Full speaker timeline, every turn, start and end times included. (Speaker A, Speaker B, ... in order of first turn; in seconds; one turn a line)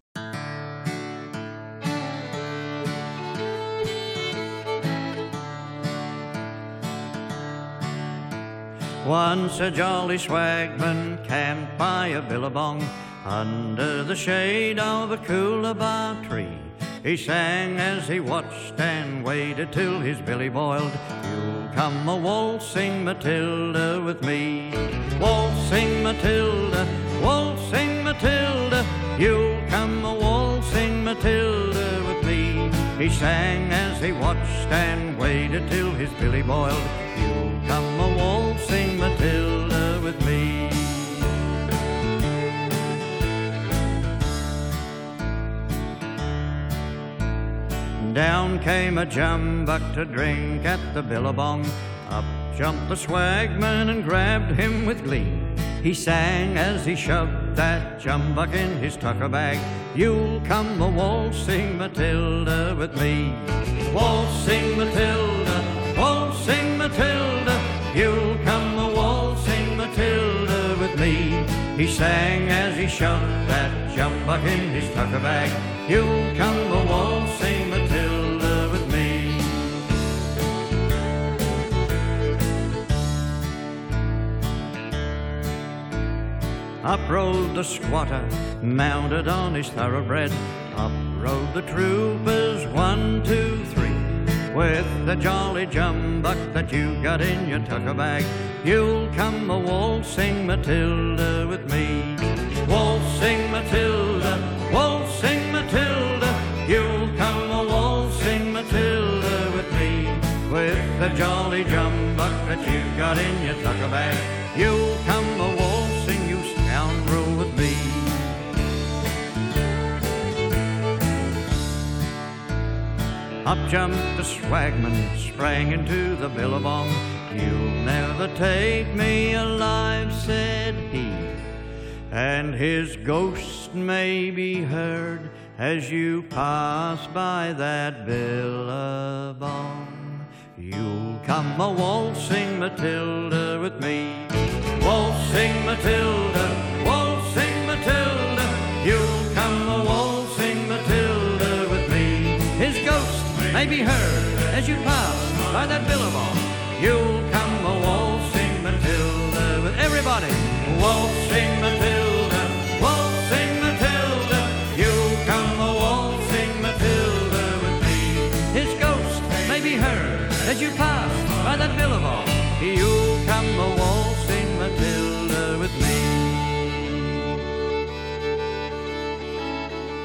Speaker A: 9.0-41.3
Speaker A: 48.0-79.9
Speaker A: 86.8-118.4
Speaker A: 123.4-131.4
Speaker A: 132.1-177.0